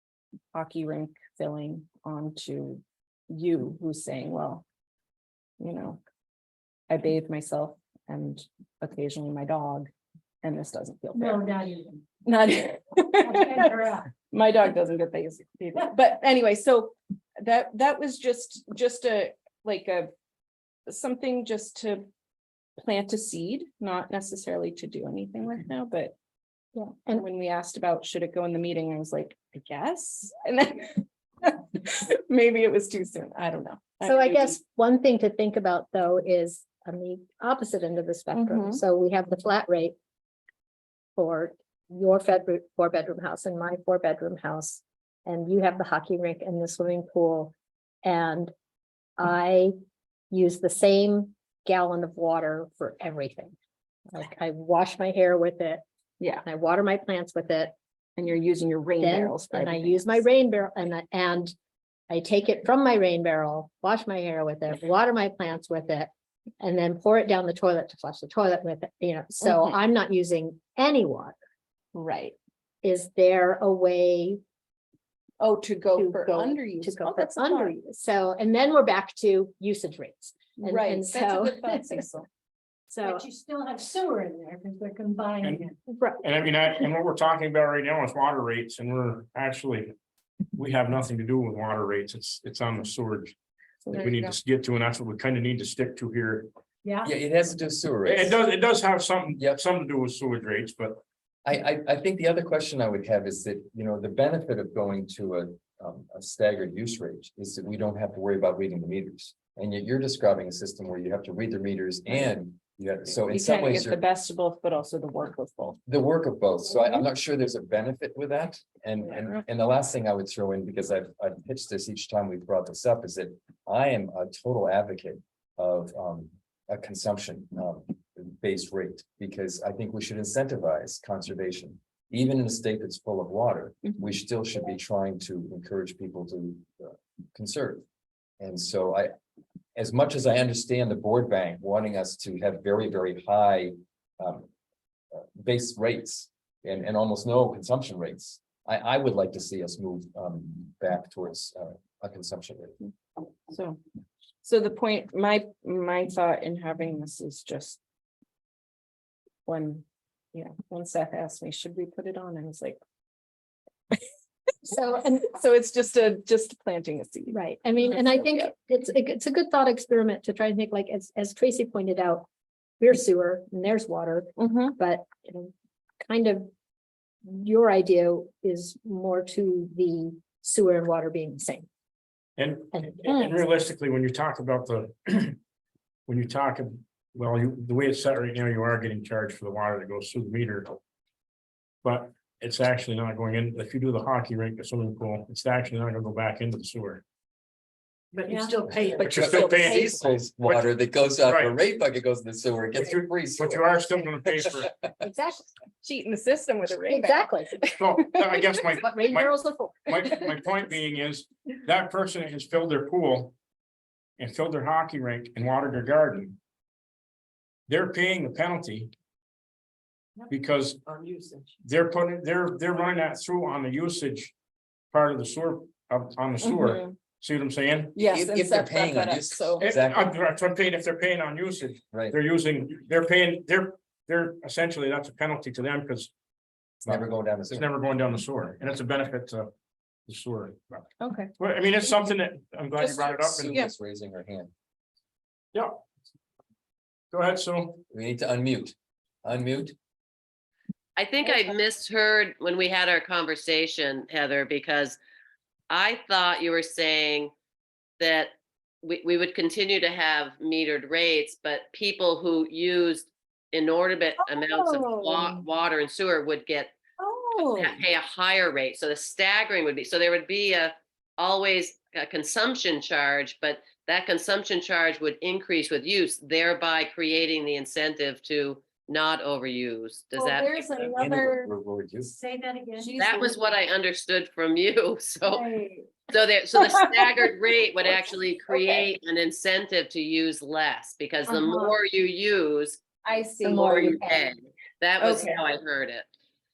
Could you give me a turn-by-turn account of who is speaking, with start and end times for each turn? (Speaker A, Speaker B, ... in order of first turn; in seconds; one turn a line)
Speaker A: 0.5-4.6
Speaker A: 5.6-6.0
Speaker A: 6.9-9.9
Speaker A: 10.4-11.5
Speaker B: 11.5-11.8
Speaker A: 12.2-20.1
Speaker C: 13.3-13.8
Speaker A: 20.9-22.1
Speaker A: 22.8-26.1
Speaker B: 26.7-27.2
Speaker A: 27.1-34.6
Speaker B: 34.0-39.9
Speaker A: 38.3-38.8
Speaker B: 41.1-48.5
Speaker B: 49.2-49.7
Speaker B: 50.3-53.5
Speaker B: 54.1-55.8
Speaker A: 56.2-56.5
Speaker B: 56.4-57.7
Speaker A: 58.2-60.2
Speaker B: 59.0-61.5
Speaker B: 62.1-71.3
Speaker A: 69.4-69.7
Speaker A: 71.9-72.3
Speaker B: 72.8-74.4
Speaker A: 75.4-77.7
Speaker B: 75.9-82.0
Speaker A: 80.6-82.2
Speaker B: 82.9-83.2
Speaker C: 83.1-85.7
Speaker B: 85.9-86.2
Speaker D: 86.2-89.9
Speaker D: 90.5-93.3
Speaker A: 93.8-94.3
Speaker D: 93.9-96.5
Speaker E: 97.0-98.4
Speaker D: 98.0-101.0
Speaker E: 101.4-114.0
Speaker A: 113.2-115.8
Speaker E: 115.9-137.8
Speaker A: 119.0-119.4
Speaker E: 138.4-139.1
Speaker E: 139.8-144.5
Speaker E: 145.1-152.8
Speaker A: 153.5-153.8
Speaker A: 154.4-157.8
Speaker A: 159.4-162.8
Speaker B: 164.7-165.2
Speaker A: 164.7-168.4
Speaker B: 167.3-172.3
Speaker B: 172.8-176.5
Speaker A: 174.4-174.8
Speaker B: 177.2-181.7
Speaker D: 182.4-185.4
Speaker A: 183.1-183.3
Speaker D: 186.1-190.8
Speaker D: 191.8-197.0
Speaker C: 198.2-198.9
Speaker B: 198.3-198.5
Speaker E: 198.8-205.0
Speaker A: 198.9-200.0
Speaker D: 199.0-200.7
Speaker D: 201.2-201.5
Speaker D: 202.8-204.7
Speaker B: 205.0-205.5
Speaker A: 205.8-208.5
Speaker B: 206.9-207.6
Speaker D: 207.8-209.3
Speaker B: 208.8-209.8
Speaker D: 209.8-213.3
Speaker D: 214.2-216.4
Speaker D: 217.7-218.9
Speaker D: 220.3-220.8
Speaker D: 221.6-224.3
Speaker D: 224.9-228.0
Speaker A: 226.4-226.9
Speaker A: 227.9-229.7
Speaker E: 228.1-230.1
Speaker D: 229.6-236.1
Speaker E: 231.9-232.2
Speaker E: 236.8-237.7
Speaker D: 236.8-239.5
Speaker D: 240.1-243.6
Speaker A: 241.0-241.3
Speaker E: 242.8-244.5
Speaker D: 247.1-247.8
Speaker E: 247.9-249.7
Speaker F: 250.9-255.0
Speaker F: 255.7-257.3
Speaker F: 258.0-266.7
Speaker A: 264.2-265.4
Speaker A: 267.0-267.8
Speaker F: 267.4-280.8
Speaker A: 280.1-281.5
Speaker E: 280.8-282.1
Speaker C: 282.1-283.3
Speaker A: 282.8-283.4
Speaker F: 283.0-285.5
Speaker A: 285.2-286.1
Speaker F: 286.1-292.8
Speaker A: 286.7-287.1
Speaker A: 288.5-288.8
Speaker A: 291.3-291.8
Speaker A: 293.0-294.1
Speaker F: 293.4-296.1
Speaker B: 293.8-294.0
Speaker A: 295.0-295.4